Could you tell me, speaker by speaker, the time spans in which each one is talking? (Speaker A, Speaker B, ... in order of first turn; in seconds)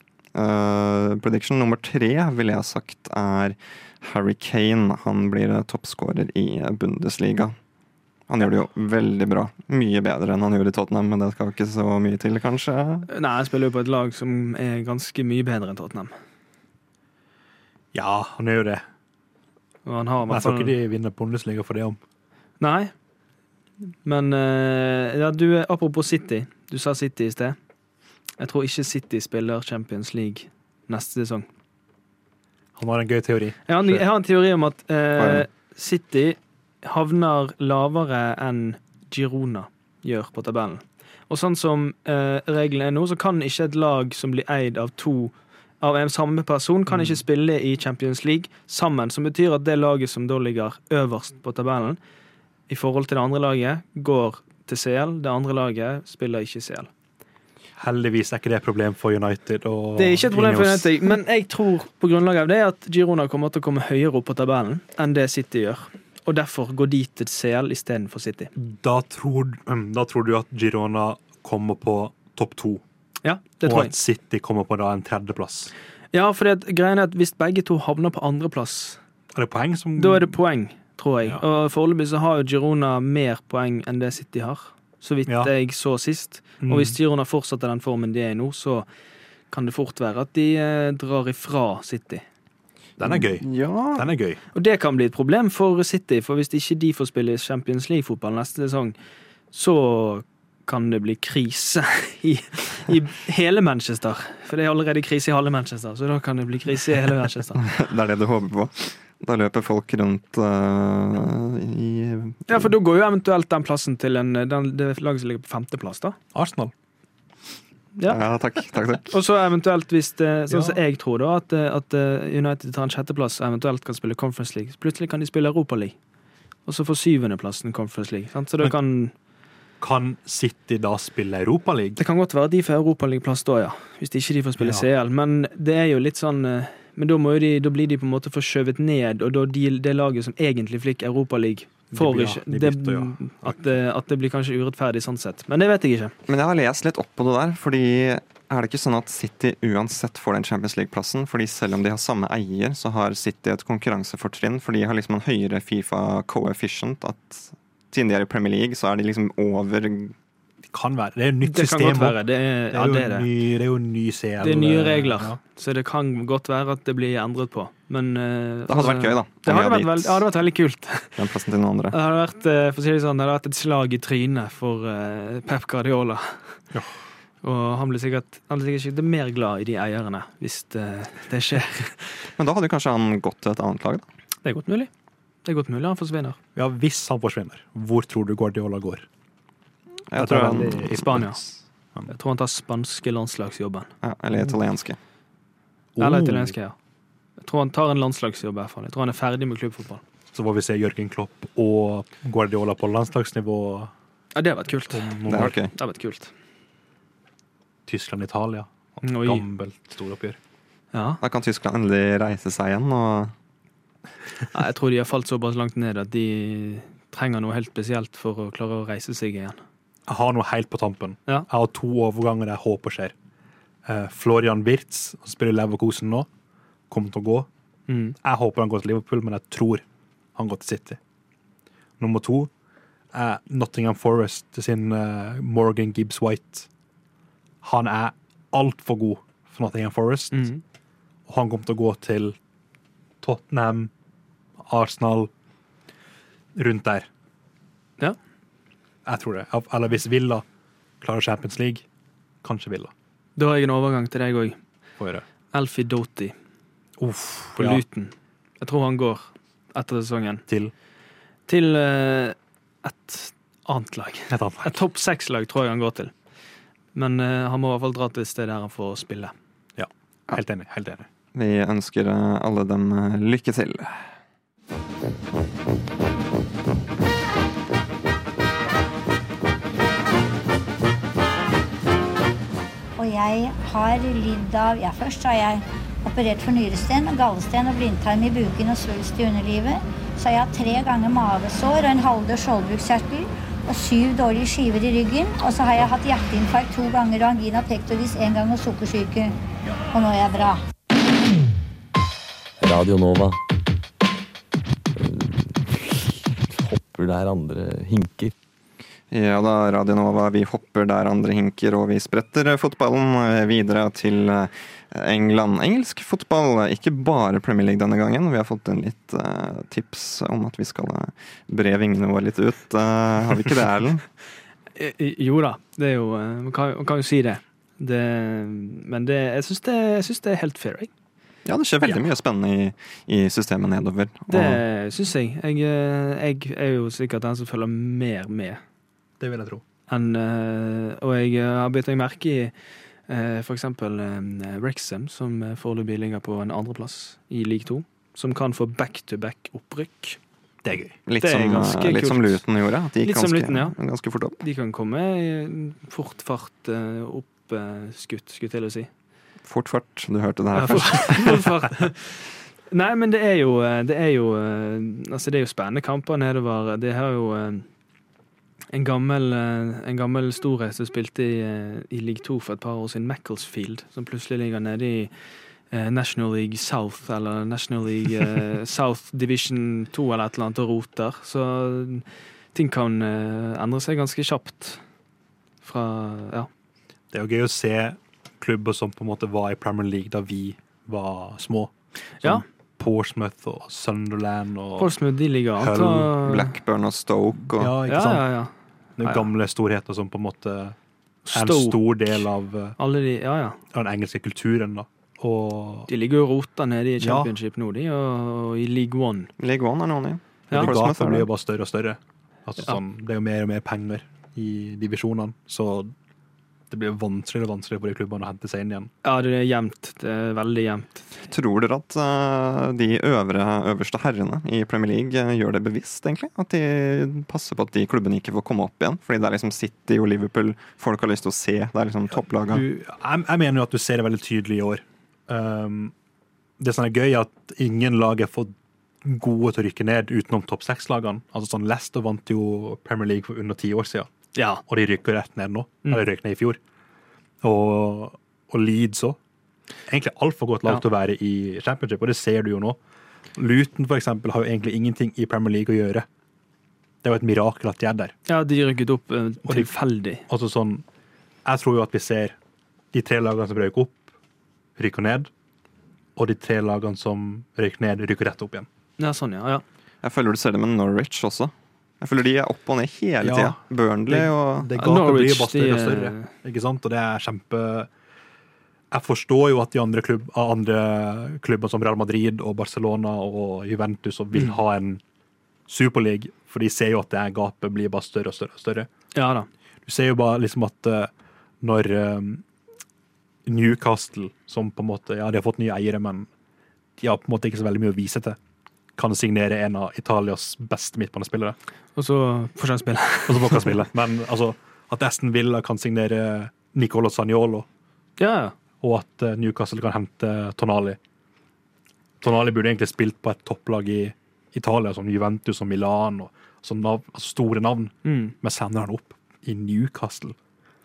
Speaker A: 0.3-7.5, 8.3-13.1, 35.2-35.5, 93.0-94.1, 107.6-112.7, 118.1-119.2, 146.3-160.2, 168.7-170.3, 171.2-172.0, 182.4-184.1, 190.1-191.0, 194.0-195.0, 205.3-205.7, 211.2-213.3, 271.3-274.1, 309.1-324.0, 331.4-334.6, 351.1-354.4, 359.4-361.5, 396.2-397.7, 409.4-411.3, 421.3-432.6, 470.0-474.7
Speaker B: 13.1-16.1, 19.9-20.7, 22.6-22.9, 24.1-27.6, 28.4-31.5, 33.7-52.0, 52.7-56.9, 60.0-68.5, 73.2-73.9, 76.1-79.0, 80.0-88.9, 89.5-92.2, 94.5-99.0, 99.5-107.7, 112.5-116.2, 119.1-126.0, 126.7-129.1, 132.0-146.1, 161.4-163.3, 164.4-171.2, 171.9-176.6, 177.4-182.1, 184.4-184.9, 185.4-186.4, 190.8-191.4, 192.1-193.9, 196.0-196.8, 197.4-200.0, 204.3-206.3, 209.0-209.4, 210.9-211.2, 214.5-219.6, 227.9-228.2, 240.3-240.6, 253.4-254.6, 255.5-256.4, 257.6-260.4, 261.5-266.1, 266.9-269.3, 324.8-330.9, 334.3-338.6, 339.9-342.5, 343.1-350.2, 351.2-352.4, 353.0-353.8, 354.4-358.9, 360.6-362.1, 362.7-367.7, 368.7-375.1, 375.7-384.8, 385.6-386.5, 394.8-396.5, 397.9-398.5, 401.3-401.8, 402.8-403.6, 405.9-409.3, 419.0-421.1, 444.4-444.6, 458.3-460.2, 469.0-469.6, 474.8-476.3, 489.1-489.5, 502.0-503.8, 508.2-508.5, 518.0-518.3
Speaker C: 17.9-18.8, 20.3-22.0, 32.8-34.0, 46.9-47.2, 57.8-61.2, 68.6-72.8, 73.6-75.7, 79.3-80.4, 85.3-85.5, 86.6-87.0, 93.0-94.4, 116.3-116.7, 120.5-120.8, 129.8-132.0, 134.6-134.9, 141.9-143.8, 160.7-162.2, 162.7-165.4, 186.6-189.1, 190.2-192.1, 196.0-196.5, 200.3-203.9, 204.9-205.6, 207.9-210.4, 220.1-223.1, 223.9-226.3, 226.9-227.5, 228.2-229.8, 230.4-231.0, 232.0-232.5, 233.1-236.7, 237.6-240.5, 241.3-242.4, 243.2-243.9, 244.7-245.3, 246.6-247.1, 249.1-250.4, 251.0-251.8, 252.4-252.9, 255.0-255.2, 257.0-257.8, 260.5-260.7, 264.3-264.8, 269.8-271.1, 339.2-339.6, 350.6-351.0, 387.1-394.9, 395.6-396.1, 397.6-398.3, 399.0-400.8, 401.3-402.8, 403.7-405.9, 407.0-407.3, 410.5-415.9, 416.7-418.9, 432.5-435.9, 436.6-438.5, 439.0-444.1, 444.7-446.6, 447.4-449.2, 449.9-452.8, 453.4-456.1, 457.0-458.1, 459.5-459.7, 460.3-460.8, 461.4-462.4, 462.9-464.0, 464.8-465.3, 466.2-468.7, 473.2-477.9, 478.9-485.0, 485.7-488.9, 489.9-491.1, 491.6-492.4, 493.5-496.3, 497.0-498.4, 499.0-501.6, 503.3-507.7, 508.8-511.0, 512.2-520.4
Speaker D: 283.0-299.4, 299.9-300.6
Speaker E: 302.6-303.4, 304.9-308.3